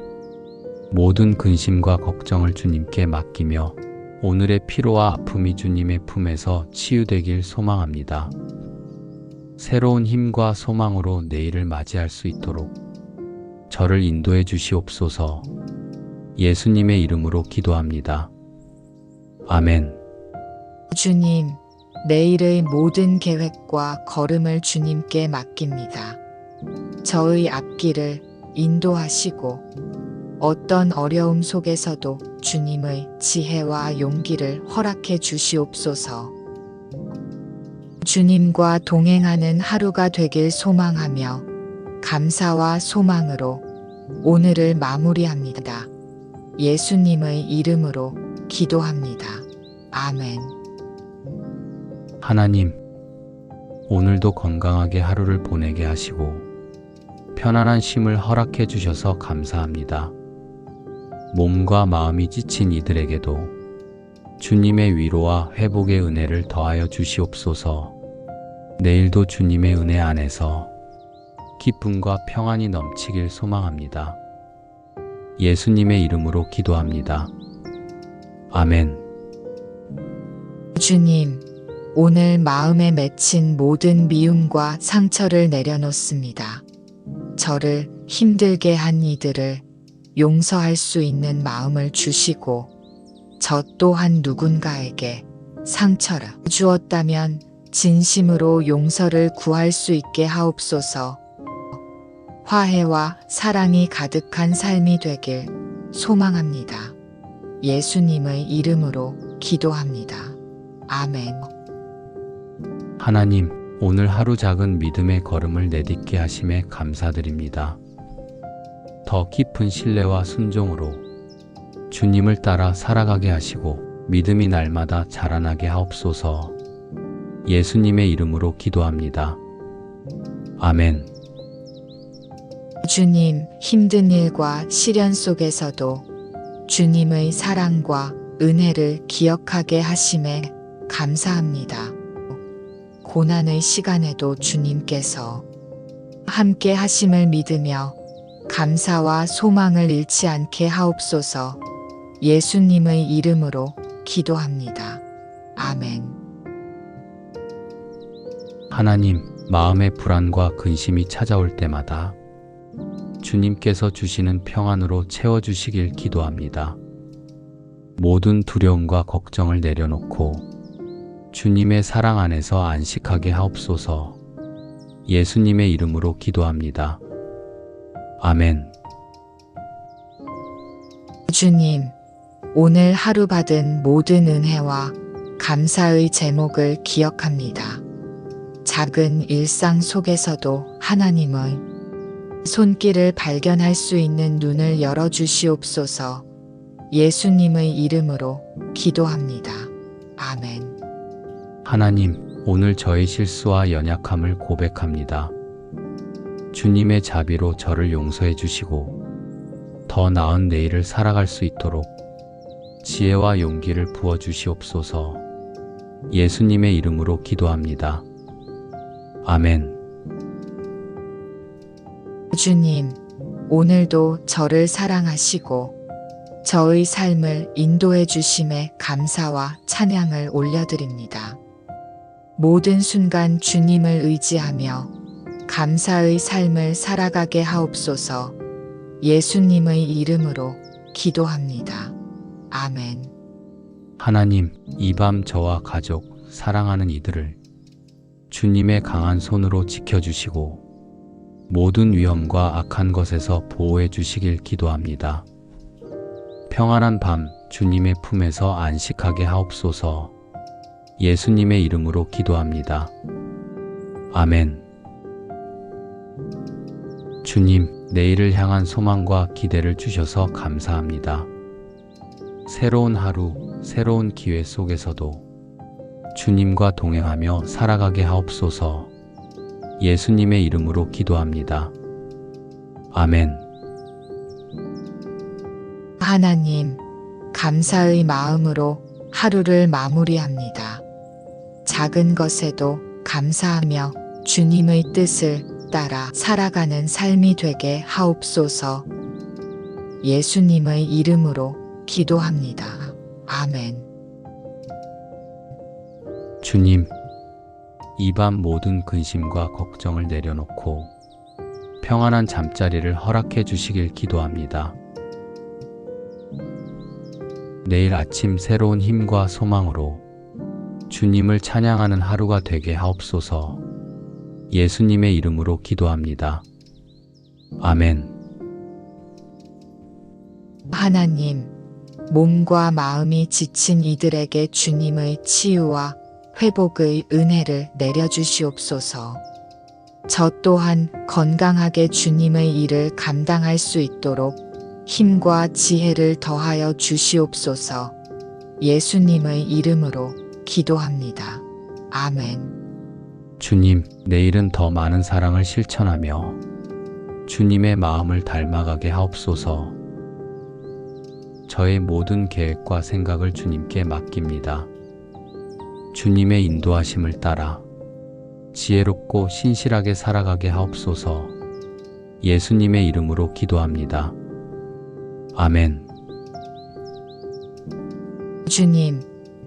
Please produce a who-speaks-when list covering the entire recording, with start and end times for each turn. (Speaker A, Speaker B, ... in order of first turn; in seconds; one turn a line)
Speaker A: 0.9-8.3
Speaker A: 9.6-12.7
Speaker A: 13.7-15.5
Speaker A: 16.4-18.3
Speaker A: 19.5-20.0
Speaker B: 20.9-26.2
Speaker B: 27.0-29.6
Speaker B: 30.4-36.3
Speaker B: 38.0-41.5
Speaker B: 42.0-43.6
Speaker B: 44.2-45.9
Speaker B: 46.6-50.5
Speaker A: 52.2-52.8
Speaker A: 53.9-56.5
Speaker A: 57.3-60.1
Speaker A: 61.3-63.5
Speaker A: 64.4-67.9
Speaker A: 68.8-70.7
Speaker A: 71.6-74.2
Speaker A: 75.4-77.3
Speaker A: 78.5-79.0
Speaker B: 80.7-81.4
Speaker B: 81.9-86.6
Speaker B: 87.4-89.6
Speaker B: 90.2-92.7
Speaker B: 93.4-101.2
Speaker B: 102.4-106.9
Speaker B: 107.6-110.4
Speaker B: 110.9-111.5
Speaker A: 113.0-117.8
Speaker A: 119.0-121.0
Speaker A: 121.9-126.5
Speaker A: 127.4-129.4
Speaker A: 130.6-131.1
Speaker B: 132.8-136.1
Speaker B: 136.7-141.9
Speaker B: 143.0-145.4
Speaker B: 146.3-148.0
Speaker B: 148.5-151.6
Speaker B: 152.2-155.0
Speaker B: 155.6-156.2
Speaker A: 158.7-162.2
Speaker A: 163.2-166.8
Speaker A: 168.0-170.4
Speaker A: 171.3-174.2
Speaker A: 175.1-177.0
Speaker A: 178.2-178.7
Speaker B: 181.3-181.9
Speaker B: 182.5-187.8
Speaker B: 188.6-191.6
Speaker B: 192.4-196.2
Speaker B: 196.9-200.8
Speaker A: 201.6-205.3
Speaker A: 206.5-209.0
Speaker A: 209.9-211.9
Speaker A: 212.8-215.2
Speaker A: 216.1-218.0
Speaker A: 219.2-219.8
Speaker B: 222.3-225.7
Speaker B: 226.4-231.4
Speaker B: 232.4-234.9
Speaker B: 235.5-238.3
Speaker B: 239.0-241.9
Speaker B: 242.5-243.1
Speaker A: 244.0-247.4
Speaker A: 248.3-250.6
Speaker A: 251.5-255.2
Speaker A: 256.5-260.1
Speaker A: 261.0-262.9
Speaker A: 264.1-264.6
Speaker A: 267.2-271.3
Speaker A: 272.5-275.2
Speaker A: 276.1-278.9
Speaker A: 279.8-281.7
Speaker A: 282.9-283.4
Speaker B: 286.0-286.8
Speaker B: 287.3-290.8
Speaker B: 291.6-298.9
Speaker B: 300.0-303.9
Speaker A: 306.4-306.9
Speaker A: 308.0-310.9
Speaker A: 311.8-314.8
Speaker A: 317.6-320.0
Speaker A: 320.9-323.6
Speaker A: 324.5-326.4
Speaker A: 327.6-328.1
Speaker B: 330.7-331.5
Speaker B: 332.1-339.2
Speaker B: 340.1-347.9
Speaker B: 348.6-352.5
Speaker A: 353.4-356.4
Speaker A: 357.3-359.8
Speaker A: 361.5-364.7
Speaker A: 365.9-367.6
Speaker A: 368.5-371.3
Speaker A: 372.2-374.1
Speaker A: 375.3-375.9
Speaker B: 378.4-379.1